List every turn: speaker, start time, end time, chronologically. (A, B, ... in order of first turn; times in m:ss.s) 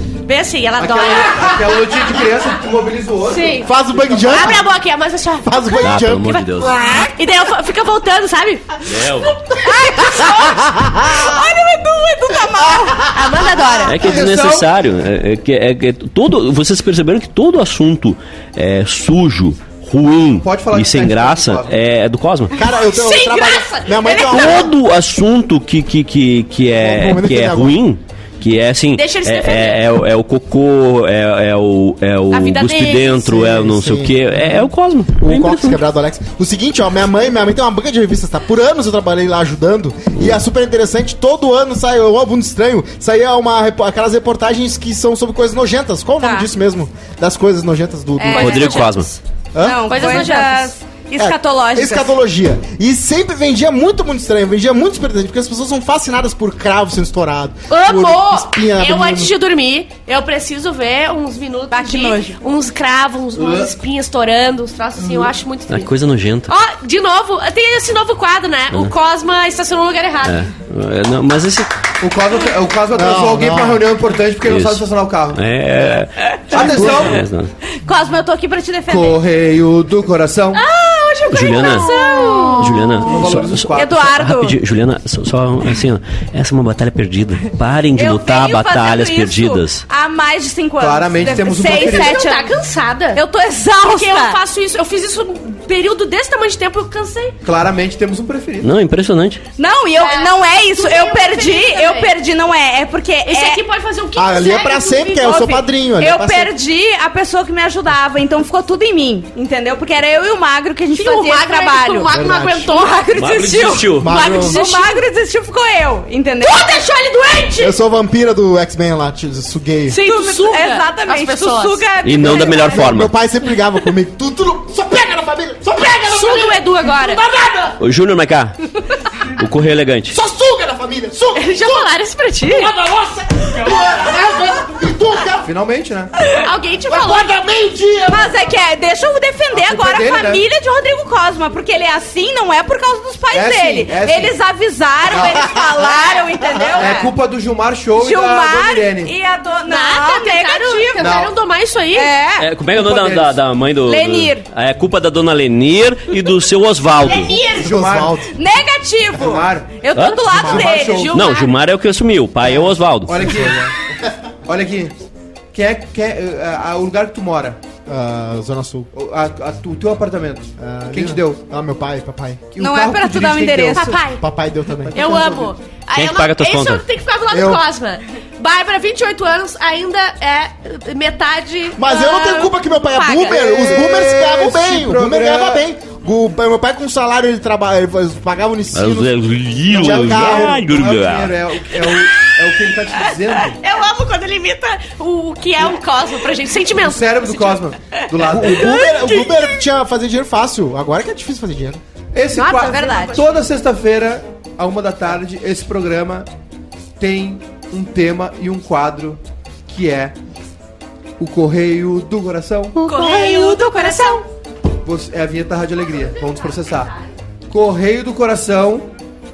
0:00.2-0:01.9 A
0:00.8-0:04.6 B
0:03.3-0:06.1 A
0:03.6-0:04.6 C
0:05.4-0:07.1 C
0:05.8-0:06.7 D
0:07.2-0:08.8 A
0:08.9-0:09.3 D
0:09.5-0:13.2 E
0:09.6-0:10.4 A
0:10.9-0:11.2 C
0:13.1-0:14.0 A
0:13.4-0:13.7 C
0:13.8-0:22.5 D
0:13.9-0:14.7 B
0:20.4-0:21.7 B
0:22.6-0:24.8 C
0:22.7-0:24.5 A
0:23.2-0:24.1 E
0:24.3-0:35.8 D
0:26.8-0:27.8 C
0:29.0-0:29.8 A
0:32.3-0:33.2 A
0:33.2-0:48.8 C
0:46.2-0:46.5 E
0:48.2-0:49.1 E
0:48.3-0:49.1 A
0:48.4-0:49.1 D
0:49.5-0:50.3 C
0:49.6-0:52.1 E
0:49.9-0:50.8 A
0:51.2-0:59.3 C
0:57.7-1:05.9 A
1:01.7-1:02.4 E
1:03.4-1:03.7 B
1:05.0-1:05.3 B
1:05.7-1:06.5 D
1:06.5-1:10.5 A
1:10.2-1:11.7 D
1:12.0-1:15.4 B
1:12.9-1:13.9 C
1:14.4-1:17.5 D
1:16.5-1:17.2 B
1:16.5-1:17.1 C
1:17.8-1:19.2 E
1:18.9-1:20.6 B
1:20.6-1:23.1 A
1:21.3-1:21.9 D
1:21.3-1:22.8 E
1:22.6-1:29.8 D
1:23.0-1:24.0 B
1:23.7-1:24.6 E
1:28.0-1:32.6 E
1:30.8-1:32.2 B
1:31.3-1:33.2 A
1:33.1-1:34.4 E
1:33.9-1:37.4 A
1:37.4-1:38.7 B
1:38.6-1:39.4 D
1:39.6-1:43.6 E
1:40.0-1:42.1 A
1:43.2-1:45.6 A
1:44.2-1:46.5 C
1:46.0-1:52.1 E
1:50.9-1:53.2 A
1:52.1-1:52.7 C
1:52.7-1:56.8 E
1:53.2-1:54.1 D
1:54.0-1:54.6 C
1:54.1-1:55.0 A
1:56.4-1:57.8 A
1:57.6-2:00.0 C
1:59.9-2:01.8 A
2:00.0-2:02.9 E
2:02.0-2:03.1 D
2:02.2-2:07.8 C
2:06.1-2:07.2 A
2:07.8-2:08.6 D
2:09.4-2:10.2 D
2:10.1-2:11.9 C
2:11.3-2:12.7 A
2:12.4-2:15.5 C
2:15.4-2:16.1 B
2:16.4-2:17.3 A
2:16.8-2:18.4 C
2:18.1-2:27.2 E
2:19.5-2:20.4 B
2:23.3-2:24.4 B
2:25.1-2:25.5 B
2:25.3-2:26.9 C
2:26.7-2:29.1 B
2:27.9-2:31.3 E
2:29.7-2:32.1 A
2:31.0-2:31.3 B
2:31.9-2:32.5 E
2:32.4-2:37.4 D
2:32.7-2:33.4 B
2:33.8-2:34.4 E
2:37.1-2:37.4 E
2:37.1-2:38.3 B
2:37.4-2:38.3 C
2:38.3-2:41.2 E
2:39.1-2:39.7 B
2:40.0-2:40.3 D
2:40.3-2:40.9 C
2:40.4-2:41.3 B
2:40.8-2:41.6 A
2:41.1-2:43.4 D
2:42.4-2:43.7 C
2:43.1-2:43.7 B
2:44.5-2:45.0 B
2:45.5-2:47.6 B
2:47.9-2:48.9 C
2:48.9-2:51.4 B
2:50.6-2:52.5 C
2:52.5-2:53.9 B
2:52.6-2:54.0 E
2:53.7-2:54.2 A
2:54.2-2:55.0 C
2:54.8-2:55.6 B
2:54.9-3:03.6 A
2:55.9-2:56.8 D
2:57.3-2:57.6 C
3:01.8-3:09.2 C
3:03.2-3:05.6 B
3:08.7-3:11.4 D
3:09.7-3:10.6 C
3:09.7-3:13.6 B
3:13.6-3:17.6 A
3:16.7-3:18.8 B
3:18.2-3:21.8 C
3:18.6-3:19.3 E
3:18.7-3:19.4 A
3:22.1-3:26.3 B
3:22.4-3:23.2 E
3:22.4-3:23.4 A
3:27.0-3:30.2 B
3:31.2-3:32.8 B
3:32.8-3:34.2 E
3:32.8-3:34.2 A
3:34.8-3:36.9 B
3:37.5-3:38.9 B